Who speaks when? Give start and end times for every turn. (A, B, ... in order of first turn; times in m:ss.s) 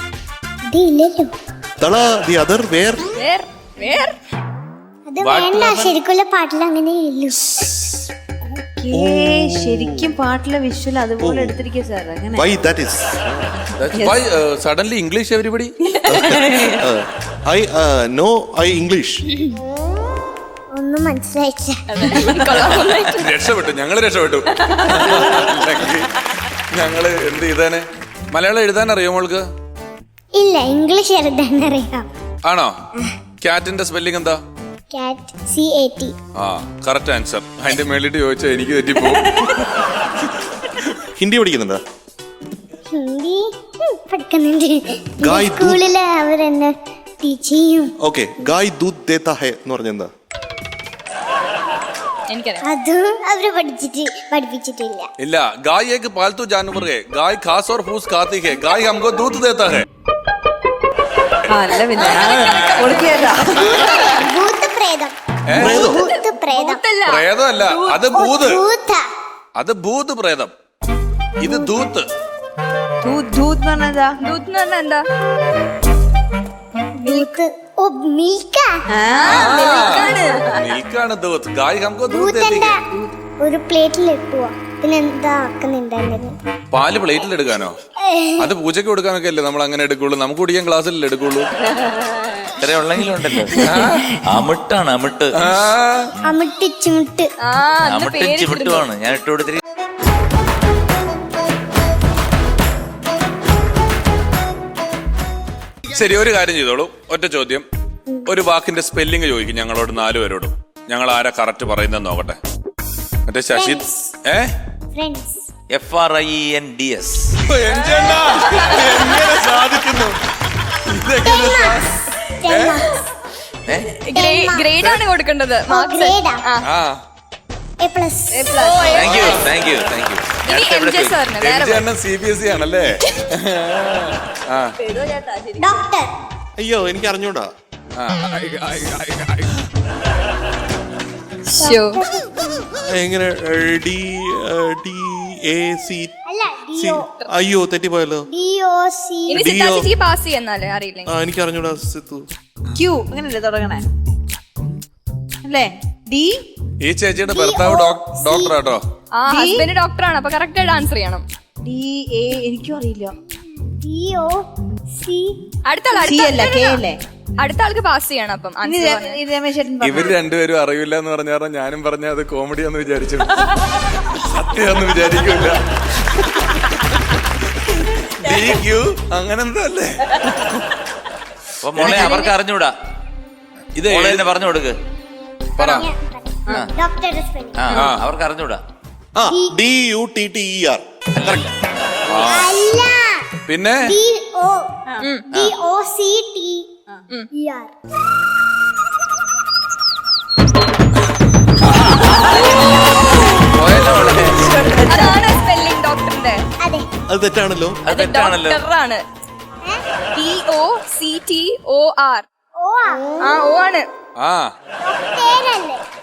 0:00.7-0:01.3 A
0:01.8-0:03.1 B
0:03.2-0:04.1 C
0:05.1-0:07.6 A
0:05.2-0:05.9 D
0:08.5-0:12.4 E
0:08.9-0:10.1 B
0:11.2-0:11.6 B
0:12.3-0:13.5 B
0:13.8-0:16.2 F
0:16.1-0:19.2 B
0:20.7-0:22.2 A
0:21.9-0:23.3 C
0:23.0-0:29.4 F
0:30.4-0:32.1 A
0:32.4-0:32.7 F
0:33.4-0:34.4 F
0:34.9-0:36.1 A
0:36.4-0:39.7 F
0:41.2-0:41.8 B
0:42.9-0:47.9 A
0:45.2-0:45.8 B
0:48.0-0:50.1 B
0:52.3-0:52.6 C
0:52.6-0:55.1 A
0:55.2-0:59.8 F
1:01.5-1:03.8 E
1:01.9-1:04.2 C
1:03.8-1:06.8 A
1:05.5-1:05.8 F
1:05.5-1:06.0 B
1:05.6-1:08.0 C
1:07.1-1:08.6 F
1:08.1-1:09.0 A
1:09.6-1:10.5 F
1:11.4-1:12.1 F
1:13.0-1:14.2 E
1:14.2-1:15.0 C
1:17.0-1:19.0 A
1:17.0-1:17.3 C
1:19.0-1:19.4 E
1:19.2-1:20.4 C
1:19.2-1:22.7 F
1:22.1-1:22.8 A
1:23.4-1:26.3 A
1:26.7-1:27.8 F
1:28.0-1:28.5 A
1:28.4-1:31.5 F
1:32.6-1:35.4 D
1:33.6-1:34.0 F
1:35.4-1:36.1 F
1:36.2-1:37.3 A
1:37.4-1:38.8 C
1:37.8-1:39.6 D
1:45.9-1:47.6 F
1:48.3-1:52.4 F
1:53.3-1:54.5 F
1:53.5-1:54.1 A
1:54.9-1:55.5 A
1:55.7-1:57.4 D
1:57.4-2:00.1 F
2:00.8-2:01.9 F
2:01.2-2:03.0 A
2:02.4-2:02.8 F
2:03.6-2:04.0 D
2:04.0-2:06.6 C
2:04.1-2:04.9 A
2:05.7-2:06.4 A
2:06.7-2:07.0 F
2:07.8-2:08.9 A
2:08.3-2:09.2 E
2:08.5-2:09.4 C
2:08.9-2:11.2 D
2:10.5-2:11.8 C
2:11.4-2:14.7 F
2:14.8-2:15.8 E
2:15.6-2:16.1 A
2:16.6-2:17.5 B
2:18.0-2:19.5 F
2:21.6-2:22.0 C
2:21.6-2:22.6 A
2:22.8-2:26.1 B
2:26.3-2:27.1 A
2:26.8-2:28.3 B
2:28.3-2:29.4 A
2:29.3-2:31.1 C
2:29.4-2:29.9 B
2:31.1-2:32.3 B
2:32.7-2:33.8 E
2:35.4-2:36.4 E
2:36.8-2:38.8 F
2:37.3-2:38.5 A
2:39.2-2:41.2 C
2:39.3-2:39.7 E
2:41.6-2:43.1 E
2:43.8-2:45.4 A
2:45.6-2:46.8 C
2:45.9-2:47.0 E
2:47.4-2:49.2 C
2:48.6-2:50.1 E
2:49.8-2:55.6 F
2:56.2-2:56.4 F
2:57.7-3:00.2 F
3:01.6-3:02.7 D
3:01.8-3:02.2 F
3:03.7-3:04.3 F
3:03.8-3:04.7 D
3:05.6-3:05.9 F
3:05.6-3:07.7 A
3:07.5-3:08.6 D
3:07.7-3:08.0 F
3:09.2-3:10.8 B
3:09.3-3:09.6 A
3:11.1-3:11.5 D
3:12.1-3:12.6 F
3:12.1-3:13.3 A
3:13.5-3:13.9 F
3:13.8-3:14.7 A
3:15.3-3:16.7 A
3:17.3-3:17.7 A
3:23.6-3:24.5 F
3:23.9-3:25.2 E
3:24.8-3:26.4 C
3:26.6-3:26.8 A
3:27.1-3:27.8 B
3:27.8-3:28.6 D
3:27.9-3:29.0 C
3:30.1-3:32.2 C
3:32.6-3:33.3 A
3:33.2-3:33.8 C
3:34.2-3:34.5 F
3:34.9-3:35.8 A